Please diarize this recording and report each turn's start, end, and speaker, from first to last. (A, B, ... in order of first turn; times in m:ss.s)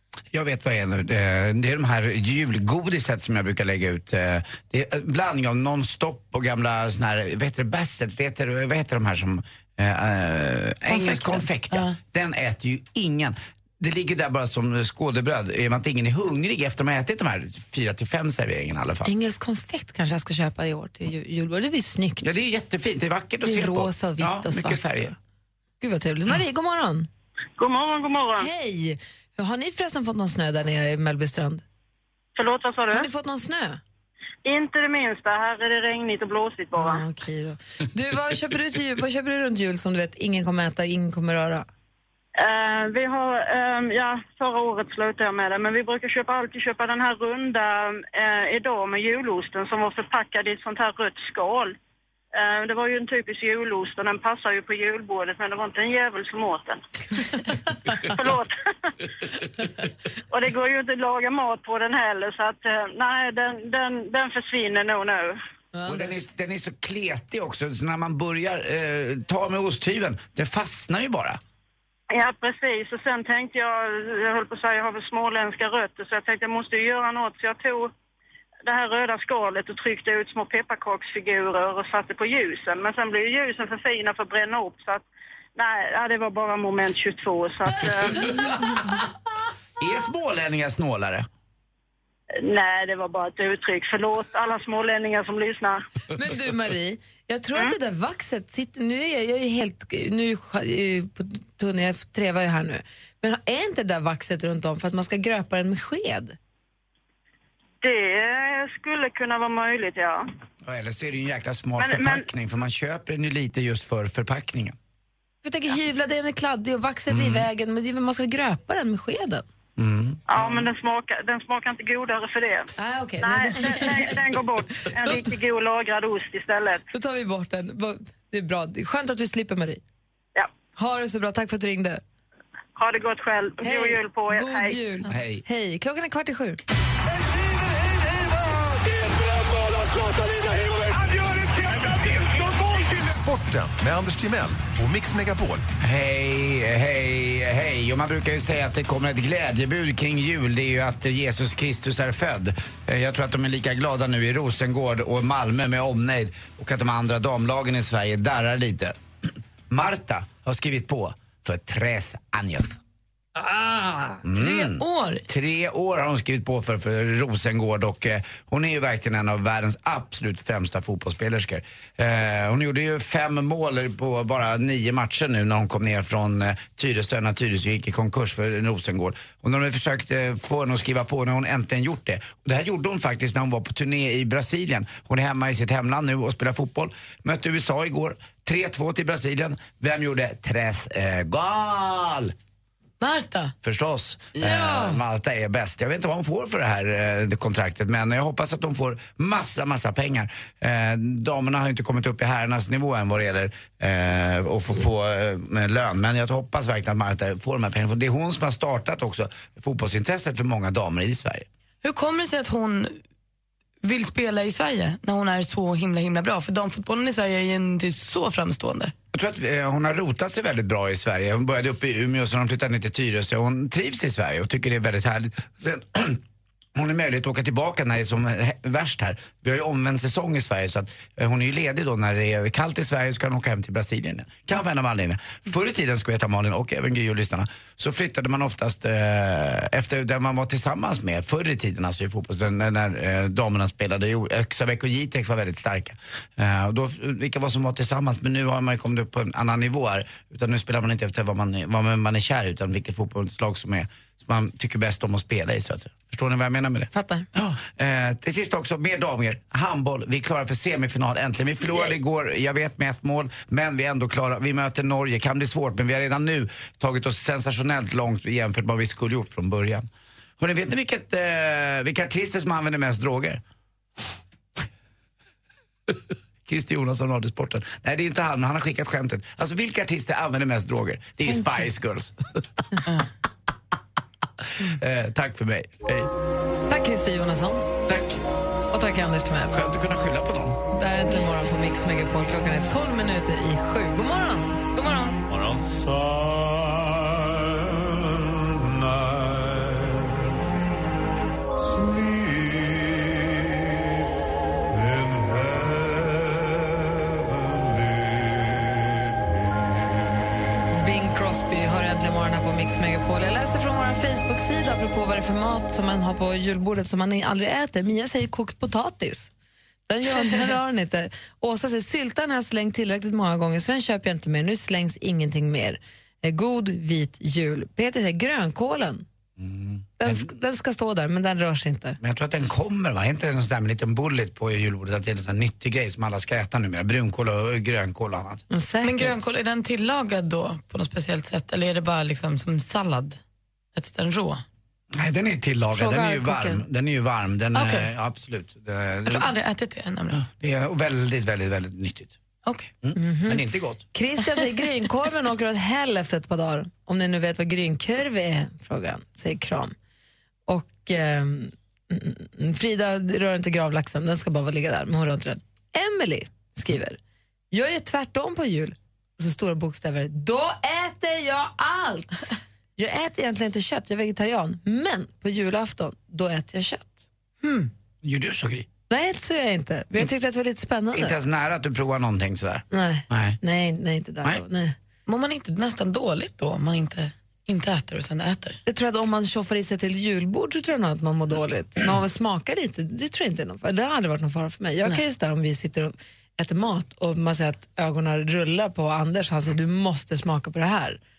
0:00.3-0:19.1 A
0:10.9-0:12.0 B
0:19.0-0:22.4 C
0:22.2-0:25.1 A
0:23.4-0:25.1 C
0:25.8-0:27.1 C
0:27.6-0:28.5 D
0:28.4-0:31.6 C
0:32.4-0:33.1 D
0:32.9-0:33.8 C
0:34.4-0:37.0 D
0:36.7-0:41.7 C
0:42.4-0:51.8 D
0:52.3-0:56.8 D
0:58.0-0:58.5 D
1:00.3-1:05.4 D
1:05.7-1:06.2 C
1:05.8-1:11.4 A
1:12.1-1:17.9 D
1:18.6-1:25.0 D
1:25.6-1:28.6 D
1:29.8-1:31.3 A
1:32.4-1:35.8 D
1:36.1-1:46.4 C
1:47.8-1:50.2 D
1:50.6-1:54.8 A
1:51.8-1:52.3 D
1:55.4-1:59.4 C
1:57.1-1:57.5 A
1:59.8-2:00.7 A
2:00.3-2:06.8 D
2:02.8-2:04.2 C
2:06.9-2:09.8 C
2:10.8-2:12.0 C
2:12.8-2:14.9 D
2:13.6-2:16.6 C
2:15.1-2:15.4 A
2:18.8-2:25.6 E
2:25.8-2:39.0 A
2:39.7-2:42.8 A
2:43.6-2:45.2 B
2:44.2-3:12.3 A
3:13.0-3:13.5 B
3:13.6-3:31.5 A
3:14.3-3:15.0 B
3:31.8-3:33.0 B
3:33.8-3:38.9 B
3:39.1-3:46.2 A
3:46.8-4:29.8 A
4:16.9-4:17.3 C
4:30.4-4:33.4 A
4:35.9-4:42.6 A
4:44.4-4:46.1 A
4:46.7-4:47.6 C
4:47.9-4:48.2 A
4:48.7-4:49.6 C
4:49.5-4:50.6 A
4:50.7-4:54.6 C
4:54.7-4:55.2 B
4:55.3-4:55.7 A
5:10.7-5:19.3 C
5:19.9-5:29.0 C
5:29.4-5:30.2 A
5:30.0-5:32.0 C
5:32.0-5:38.4 A
5:38.5-5:39.2 C
5:38.8-5:43.2 B
5:43.7-5:44.4 B
5:44.9-5:49.3 A
5:45.7-5:46.6 C
5:47.5-5:47.9 B
5:49.0-5:50.2 B
5:50.1-5:52.2 A
5:52.4-5:52.7 B
5:52.8-5:53.8 A
5:53.0-5:53.4 C
5:53.9-5:59.7 C
6:00.5-6:07.0 C
6:07.5-6:17.0 C
6:17.4-6:17.7 B
6:18.0-6:18.7 A
6:18.9-6:21.2 C
6:20.9-6:23.4 A
6:22.7-6:24.7 C
6:25.1-6:28.6 B
6:28.6-6:41.0 C